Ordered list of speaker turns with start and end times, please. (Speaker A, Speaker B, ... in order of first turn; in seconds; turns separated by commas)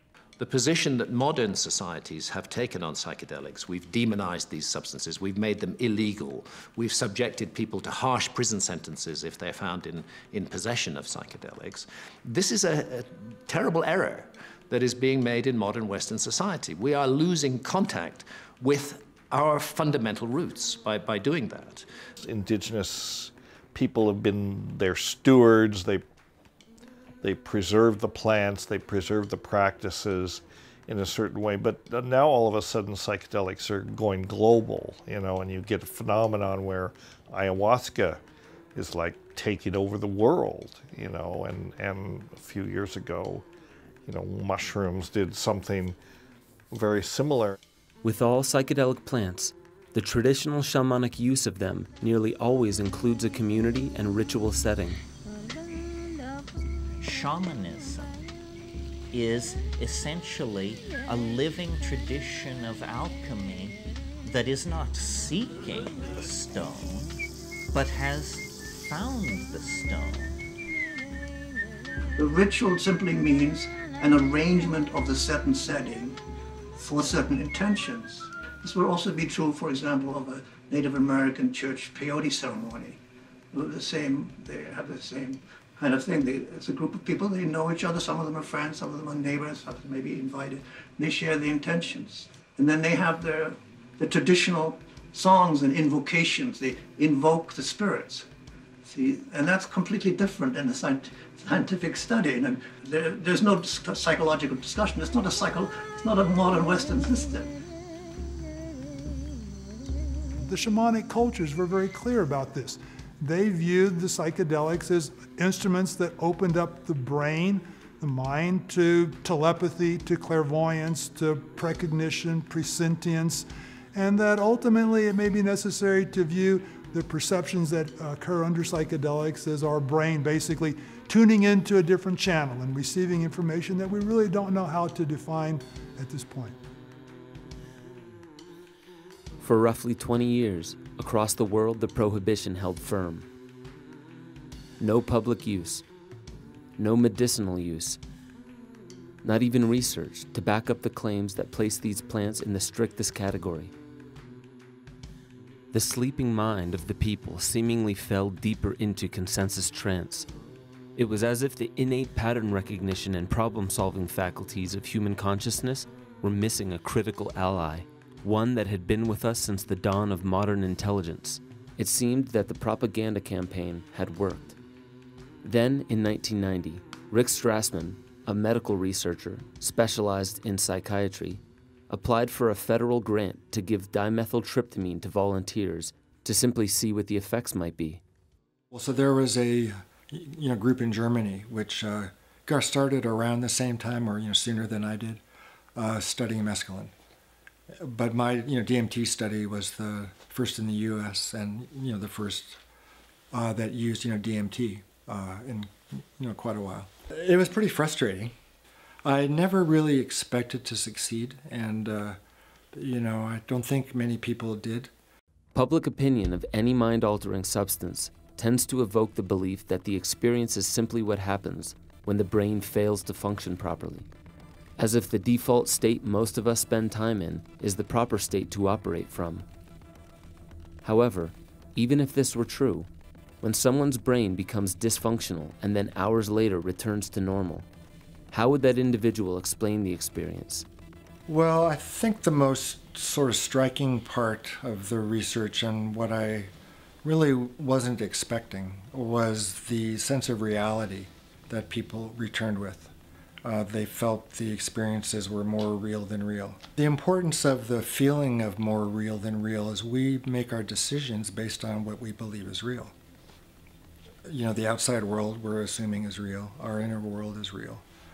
Speaker A: 0.4-21.9, Speaker B: 22.2-26.0, Speaker B: 27.2-38.2, Speaker B: 38.8-43.5, Speaker B: 44.1-46.0, Speaker B: 46.7-47.6, Speaker C: 48.0-55.0, Speaker D: 57.0-58.2, Speaker D: 59.1-67.1, Speaker D: 67.7-70.4, Speaker E: 72.2-76.2, Speaker E: 76.8-83.0, Speaker E: 83.5-98.3, Speaker E: 98.8-107.5, Speaker F: 110.5-136.6, Speaker C: 139.4-143.3, Speaker C: 144.8-145.8, Speaker C: 146.8-148.0, Speaker C: 149.2-153.7, Speaker C: 155.7-160.3, Speaker C: 161.0-174.6, Speaker C: 175.4-188.0, Speaker G: 188.7-195.2, Speaker G: 195.8-196.9, Speaker G: 197.8-202.6, Speaker G: 203.3-208.3, Speaker G: 209.0-212.2, Speaker G: 212.7-214.9, Speaker C: 215.6-224.1, Speaker C: 224.8-229.5, Speaker C: 230.8-232.9, Speaker C: 233.4-237.7, Speaker C: 238.3-240.7, Speaker G: 241.3-246.5, Speaker G: 247.0-252.9, Speaker G: 253.4-262.9, Speaker G: 264.3-267.8